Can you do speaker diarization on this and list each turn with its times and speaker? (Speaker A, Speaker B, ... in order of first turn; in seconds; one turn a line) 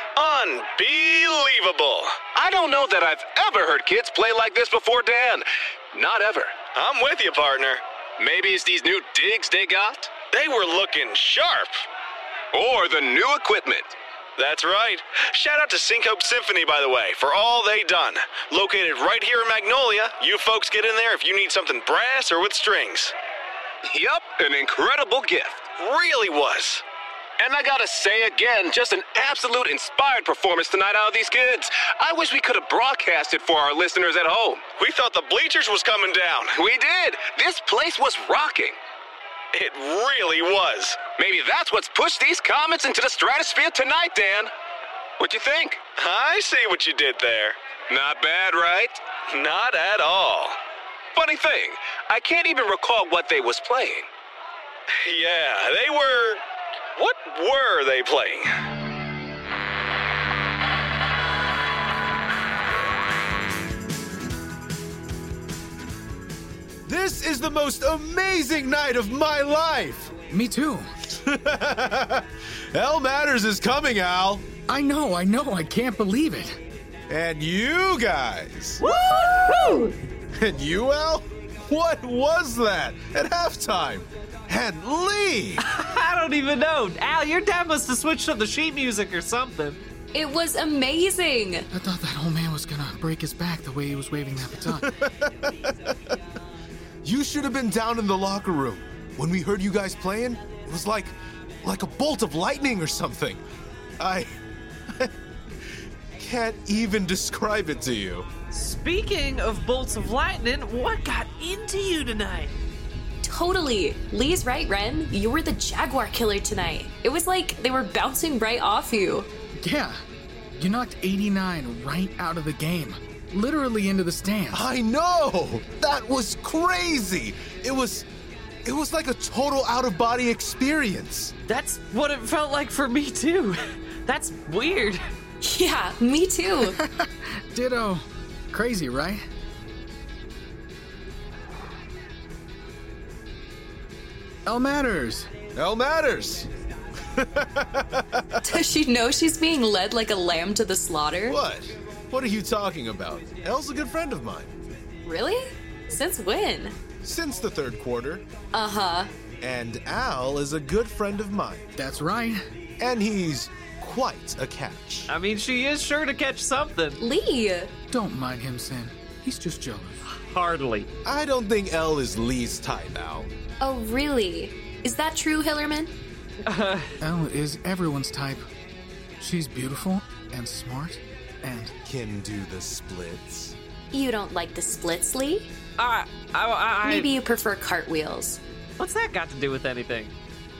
Speaker A: 0.2-2.2
Speaker B: 2.3-6.6
Speaker A: 6.7-7.8
Speaker B: 8.2-10.2
Speaker A: 10.3-11.9
Speaker B: 12.5-13.9
Speaker A: 14.4-23.1
Speaker B: 23.9-25.7
Speaker A: 25.8-26.8
Speaker B: 27.4-34.6
Speaker A: 34.8-36.5
Speaker B: 36.5-38.8
Speaker A: 39.5-41.1
Speaker B: 41.1-44.5
Speaker B: 45.2-45.8
Speaker A: 46.0-47.6
Speaker B: 47.9-49.0
Speaker A: 49.3-50.6
Speaker B: 51.1-54.1
Speaker A: 55.0-56.4
Speaker A: 57.0-58.5
Speaker C: 66.9-70.2
Speaker D: 70.3-70.9
Speaker C: 71.1-74.5
Speaker D: 74.7-76.6
Speaker C: 77.1-78.8
Speaker E: 78.8-80.0
Speaker C: 80.4-85.7
Speaker F: 85.6-89.8
Speaker E: 90.1-91.7
Speaker D: 91.7-94.9
Speaker C: 94.7-96.2
Speaker C: 97.0-103.4
Speaker C: 104.0-104.4
Speaker C: 106.2-108.3
Speaker F: 108.5-112.6
Speaker E: 113.2-119.3
Speaker D: 119.6-120.0
Speaker D: 120.5-124.6
Speaker C: 124.5-128.1
Speaker C: 128.7-131.3
Speaker F: 131.5-135.0
Speaker E: 135.4-136.8
Speaker D: 136.6-139.2
Speaker D: 144.5-145.3
Speaker C: 145.5-146.5
Speaker C: 147.2-148.5
Speaker E: 148.4-151.4
Speaker C: 151.3-154.6
Speaker E: 155.0-156.8
Speaker C: 157.0-158.2
Speaker E: 158.5-159.1
Speaker C: 159.4-161.7
Speaker D: 161.8-162.4
Speaker C: 162.8-165.1
Speaker F: 165.1-167.0
Speaker E: 167.0-167.7
Speaker D: 167.9-170.0
Speaker F: 170.1-170.9
Speaker C: 171.1-173.3
Speaker E: 173.6-175.9
Speaker F: 176.5-176.9
Speaker D: 177.0-178.4
Speaker D: 179.2-181.7
Speaker C: 181.8-183.6
Speaker E: 183.9-185.5
Speaker F: 185.8-187.1
Speaker E: 186.8-188.4
Speaker F: 188.8-190.1